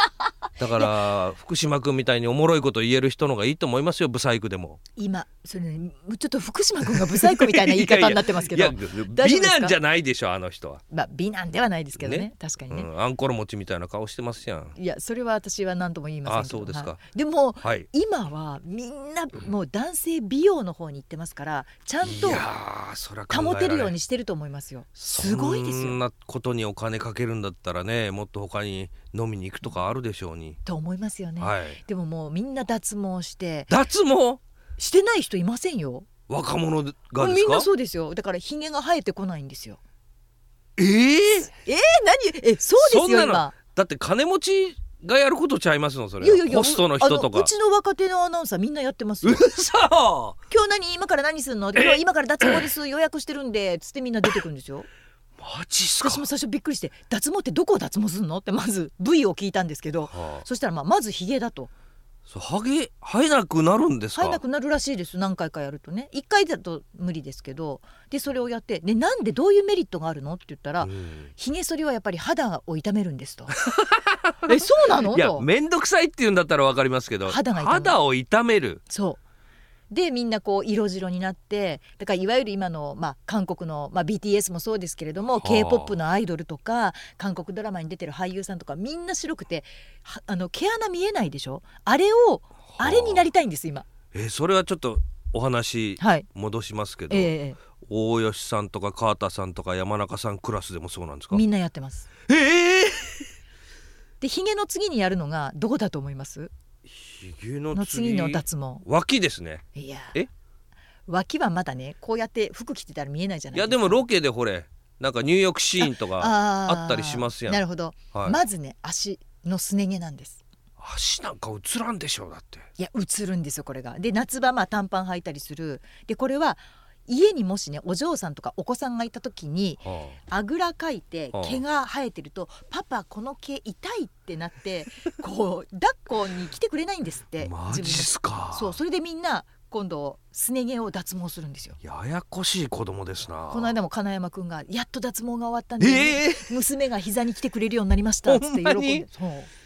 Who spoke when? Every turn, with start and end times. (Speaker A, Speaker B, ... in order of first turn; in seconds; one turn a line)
Speaker A: 0.6-4.8
Speaker B: 5.0-9.8
Speaker A: 6.9-10.8
Speaker B: 10.9-12.9
Speaker A: 11.9-14.7
Speaker B: 14.8-22.4
Speaker A: 16.2-17.0
Speaker A: 17.6-17.9
Speaker A: 22.0-23.9
Speaker B: 23.3-26.0
Speaker A: 25.0-30.6
Speaker B: 30.6-33.7
Speaker A: 31.4-31.8
Speaker A: 33.7-34.4
Speaker B: 34.8-36.1
Speaker A: 36.3-37.7
Speaker B: 37.2-39.8
Speaker A: 40.8-41.5
Speaker B: 41.6-43.5
Speaker A: 42.8-47.5
Speaker B: 46.2-49.5
Speaker A: 49.2-50.4
Speaker B: 50.5-54.9
Speaker A: 51.7-52.7
Speaker A: 55.4-56.3
Speaker B: 56.0-61.7
Speaker A: 60.1-60.4
Speaker A: 62.3-64.4
Speaker B: 64.1-73.5
Speaker A: 70.8-71.3
Speaker A: 73.5-78.8
Speaker B: 74.5-75.5
Speaker B: 77.2-78.0
Speaker B: 78.9-79.2
Speaker B: 79.9-93.8
Speaker A: 85.4-86.0
Speaker A: 92.7-93.3
Speaker A: 94.1-101.4
Speaker B: 96.0-96.3
Speaker B: 97.1-97.6
Speaker B: 101.3-102.1
Speaker A: 102.3-103.3
Speaker B: 104.2-106.5
Speaker A: 106.8-110.3
Speaker B: 107.7-108.8
Speaker B: 109.7-110.2
Speaker B: 111.1-114.0
Speaker A: 113.5-117.6
Speaker B: 115.8-120.4
Speaker A: 118.1-118.4
Speaker A: 120.8-122.7
Speaker B: 122.8-141.8
Speaker A: 129.8-130.2
Speaker A: 131.3-131.6
Speaker A: 137.4-138.8
Speaker A: 141.8-143.7
Speaker B: 143.5-149.5
Speaker A: 145.8-146.5
Speaker A: 148.2-149.1